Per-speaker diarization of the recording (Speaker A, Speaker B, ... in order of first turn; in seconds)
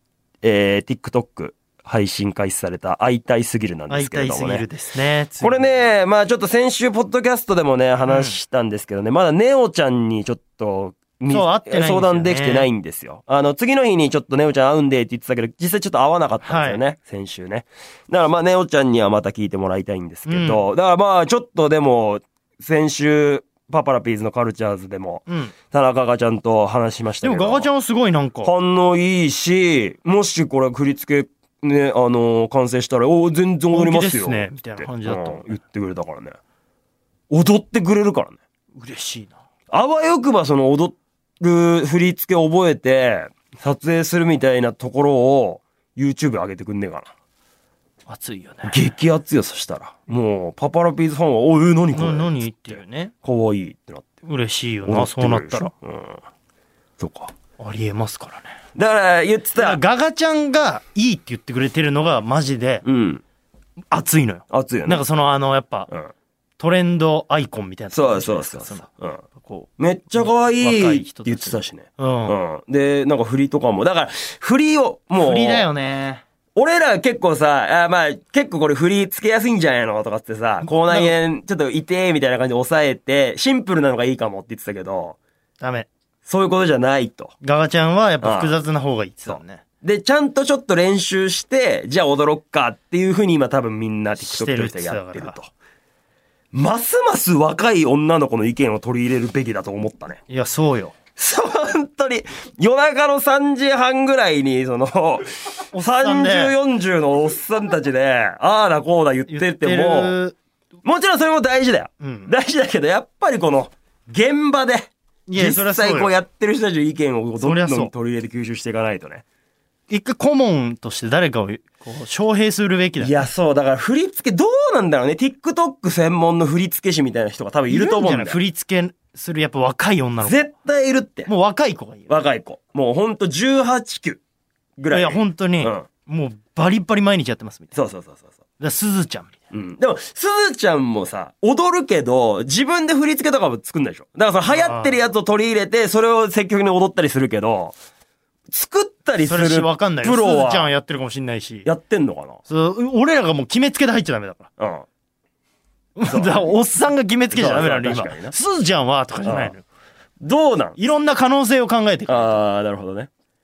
Speaker A: 0.4-4.7, 5.4-27.7, 28.4-36.4, 37.3-38.4, 39.7-47.1, 48.6-54.1, 54.8-56.2, 57.0-57.3, 58.8-59.8, 62.9-63.2, 64.5-65.0, 67.9-69.2, 69.8-75.7, 76.5-85.2, 86.2-87.3, 88.2-88.5, 89.2-95.5, 96.5-100.2, 101.2-110.2, 110.8-119.2, 123.0-128.4, 130.2-131.3, 132.1-134.2, 134.8-135.9, 137.8-138.3, 139.5-147.8, 148.5-150.7, 151.7-152.4, 154.6-154.9, 156.1-156.5, 157.3-158.3, 159.2-159.5, 160.2-160.8, 162.1-163.1
Speaker B: 3.9-5.9, 8.1-8.4, 11.3-12.7, 16.4-16.8, 20.3-20.6, 25.3-25.5, 27.2-28.5, 33.7-35.6, 38.8-39.4, 48.1-49.0, 51.9-53.1, 54.2-55.7, 57.6-58.5, 59.6-62.9, 63.9-65.9, 66.6-72.3, 75.2-76.2, 80.6-81.1, 85.6-85.9, 87.4-89.6, 94.2-95.4, 100.3-101.0, 105.7-106.5, 109.3-110.4, 112.0-112.3, 115.3-116.2, 117.4-117.9, 119.9-123.3, 127.7-130.5, 131.3-132.1, 134.9-137.8, 138.6-139.4, 144.5-145.0, 149.2-151.7, 152.5-154.5, 156.0-159.7, 160.8-162.4